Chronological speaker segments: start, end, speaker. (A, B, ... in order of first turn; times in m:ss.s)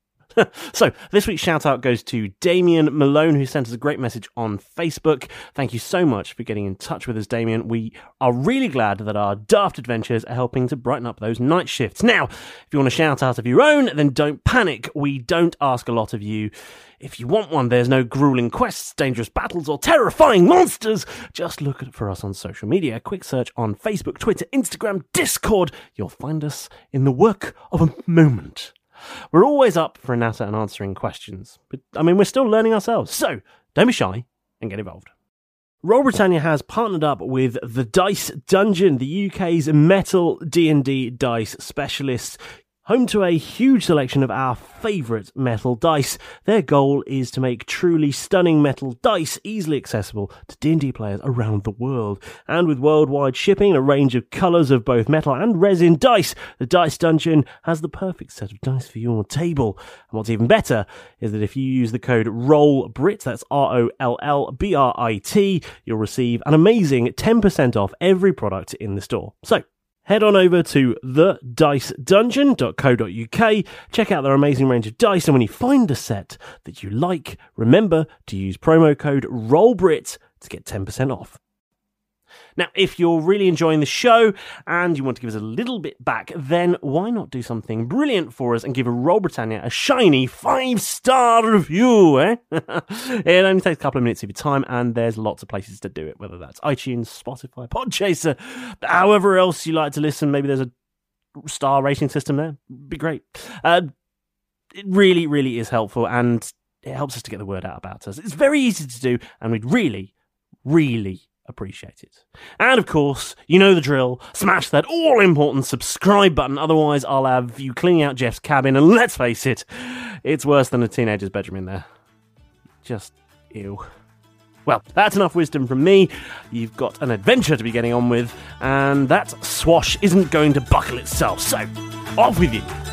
0:00.4-0:28.7 A
0:29.3-0:35.1 A
0:35.8-1:21.4 A
1:22.6-1:40.7 A
1:41.4-1:43.9 A
1:44.7-1:50.1 A
1:50.6-2:01.8 A
2:02.8-2:03.8 A
2:04.6-2:12.7 A